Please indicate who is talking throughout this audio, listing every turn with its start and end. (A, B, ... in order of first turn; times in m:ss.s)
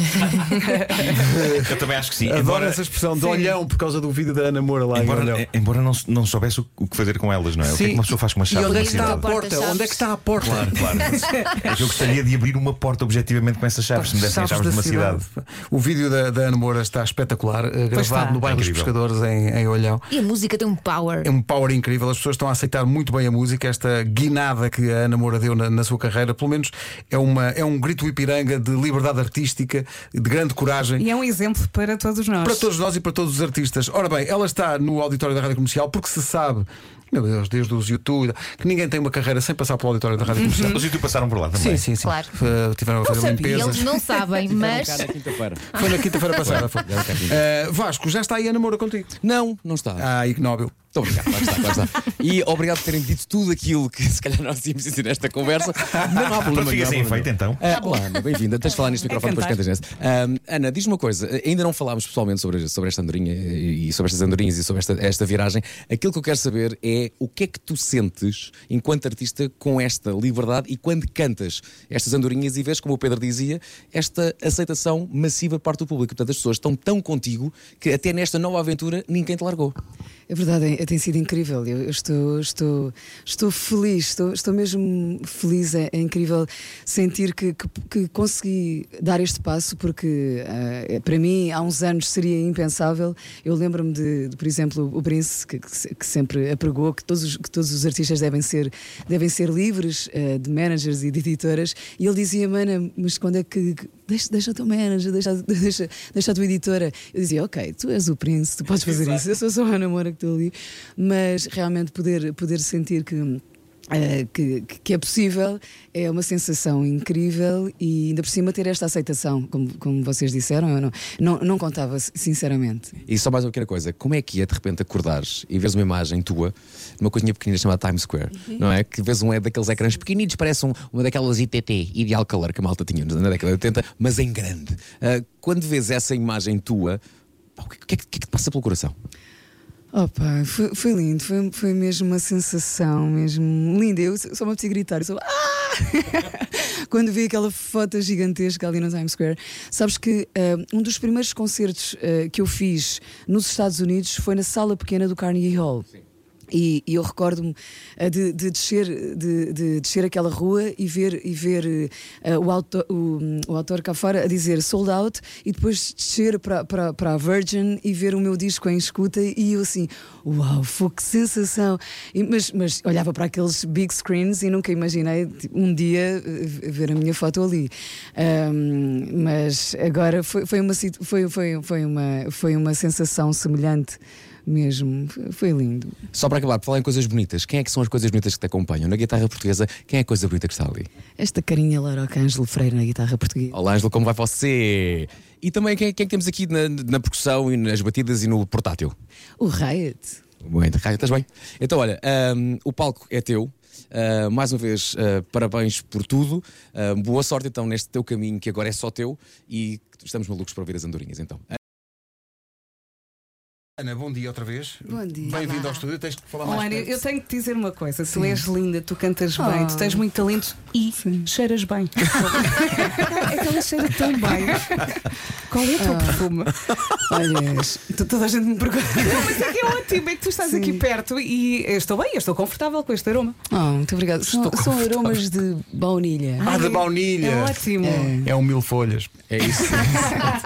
0:00.2-0:05.4 A
0:01.6-0:02.8 B
0:04.9-0:09.3 B
0:07.6-0:10.8 A
0:08.5-0:10.0 C
0:10.4-0:15.2 B
0:10.8-0:11.6 C
0:13.9-0:20.1 A
0:17.9-0:18.4 D
0:18.4-0:18.9 B
0:20.1-0:21.3 C
0:21.2-0:31.0 A
0:31.0-0:32.7 D
0:32.4-0:40.8 A
0:40.4-0:40.8 D
0:40.6-0:41.9 B
0:41.5-0:44.0 A
0:42.0-0:42.3 C
0:43.1-0:45.1 C
0:43.4-0:43.7 E
0:44.4-0:45.8 E
0:45.7-0:46.2 C
0:45.7-0:49.2 A
0:46.4-0:47.4 E
0:49.2-0:50.1 E
0:50.0-0:50.8 A
0:50.9-1:19.8 E
0:56.2-0:57.7 B
0:59.1-0:59.6 D
1:20.3-2:03.0 F
2:03.1-2:17.0 E
2:17.6-2:18.9 E
2:19.9-2:35.9 F
2:36.5-3:06.0 F
3:06.1-3:10.9 E
3:11.2-3:13.6 F
3:13.5-3:18.9 E
3:19.4-3:20.2 F
3:20.4-3:31.4 E
3:33.8-3:36.9 A
3:34.9-3:35.5 F
3:36.4-3:46.6 D
3:38.1-3:38.4 F
3:39.4-3:40.0 F
3:41.0-3:41.3 F
3:45.8-3:46.2 F
3:47.0-3:49.5 F
3:49.1-3:53.4 D
3:50.4-3:50.8 F
3:53.5-3:56.5 F
3:56.4-3:58.2 D
3:56.4-3:57.6 A
3:57.8-3:58.3 F
3:58.2-3:59.1 A
3:59.3-4:00.2 E